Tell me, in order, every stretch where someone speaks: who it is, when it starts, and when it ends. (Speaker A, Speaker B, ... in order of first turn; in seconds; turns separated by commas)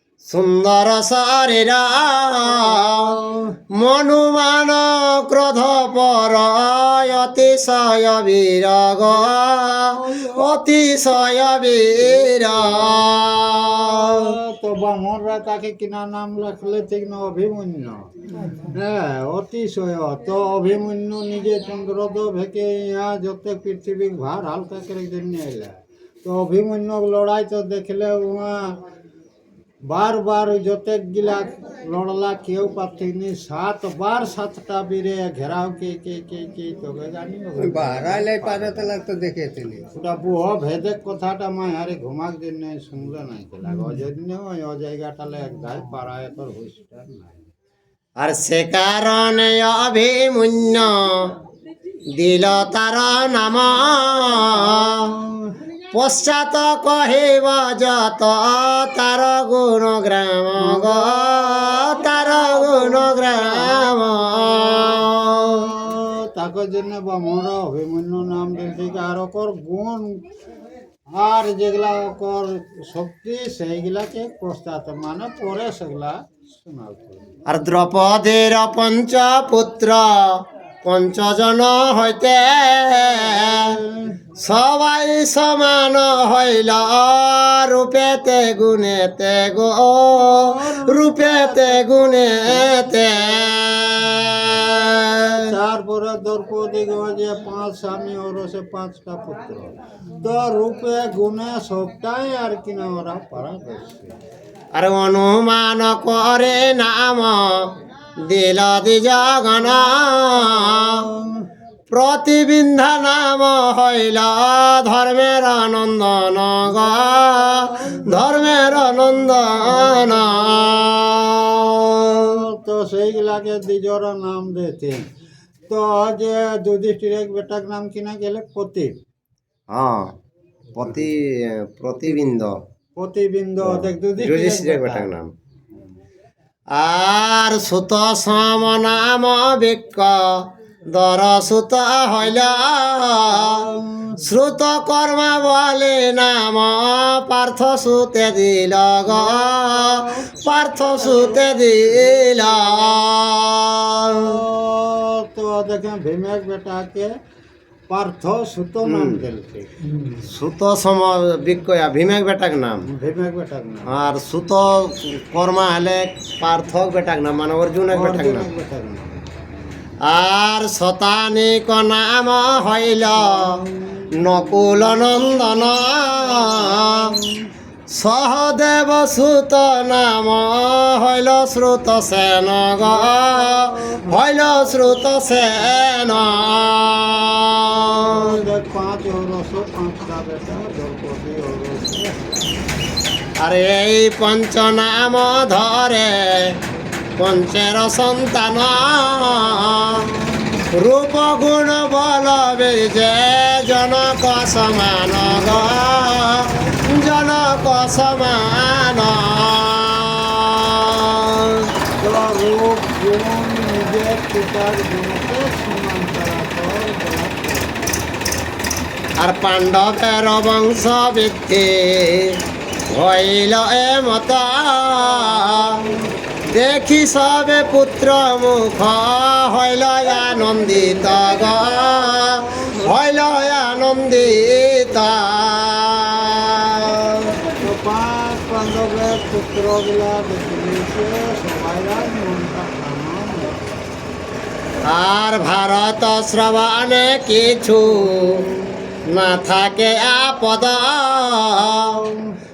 Speaker A: 0.2-3.1, Speaker B: 2.5-3.5, Speaker A: 3.7-14.2, Speaker B: 9.9-10.6, Speaker B: 12.1-13.0, Speaker B: 13.9-18.1, Speaker C: 18.3-18.8, Speaker B: 18.6-28.8, Speaker B: 29.9-38.9, Speaker C: 37.6-39.9, Speaker B: 39.9-47.4, Speaker A: 48.2-51.4, Speaker A: 52.2-55.1, Speaker B: 54.5-55.5, Speaker A: 55.9-65.7, Speaker B: 60.6-63.9, Speaker B: 65.5-70.2, Speaker B: 71.1-77.3, Speaker A: 77.5-83.8, Speaker B: 83.2-84.2, Speaker A: 84.4-95.4, Speaker B: 90.5-91.9, Speaker B: 92.5-93.1, Speaker B: 95.5-104.1, Speaker A: 104.7-107.8, Speaker A: 108.3-111.0, Speaker B: 110.5-111.4, Speaker A: 111.9-122.3, Speaker B: 117.5-118.2, Speaker B: 119.7-120.2, Speaker B: 122.2-125.0, Speaker B: 125.7-129.0, Speaker A: 129.7-130.1, Speaker A: 130.8-132.6, Speaker B: 132.9-135.1, Speaker A: 133.6-135.3, Speaker A: 136.7-143.6, Speaker B: 143.3-144.2, Speaker A: 144.2-154.4, Speaker B: 149.1-150.4, Speaker B: 151.0-151.4, Speaker B: 154.2-157.1, Speaker B: 157.9-159.7, Speaker A: 158.9-159.2, Speaker C: 159.8-160.2, Speaker A: 160.2-162.8, Speaker B: 162.8-163.9, Speaker A: 163.9-168.4, Speaker B: 167.9-169.4, Speaker A: 170.0-173.5, Speaker B: 173.2-175.5, Speaker A: 174.2-177.1, Speaker B: 176.2-177.5, Speaker A: 177.9-188.3, Speaker B: 182.8-184.2, Speaker B: 188.1-192.4, Speaker A: 193.4-196.5, Speaker A: 197.2-200.0, Speaker B: 199.8-200.6, Speaker A: 200.7-211.7, Speaker B: 205.2-206.5, Speaker B: 212.0-218.1, Speaker A: 219.2-222.4, Speaker A: 222.9-225.8, Speaker B: 225.2-226.0, Speaker A: 226.5-237.3, Speaker B: 232.4-232.9, Speaker B: 237.6-243.7, Speaker A: 244.9-248.4, Speaker A: 249.1-251.9, Speaker B: 251.8-252.3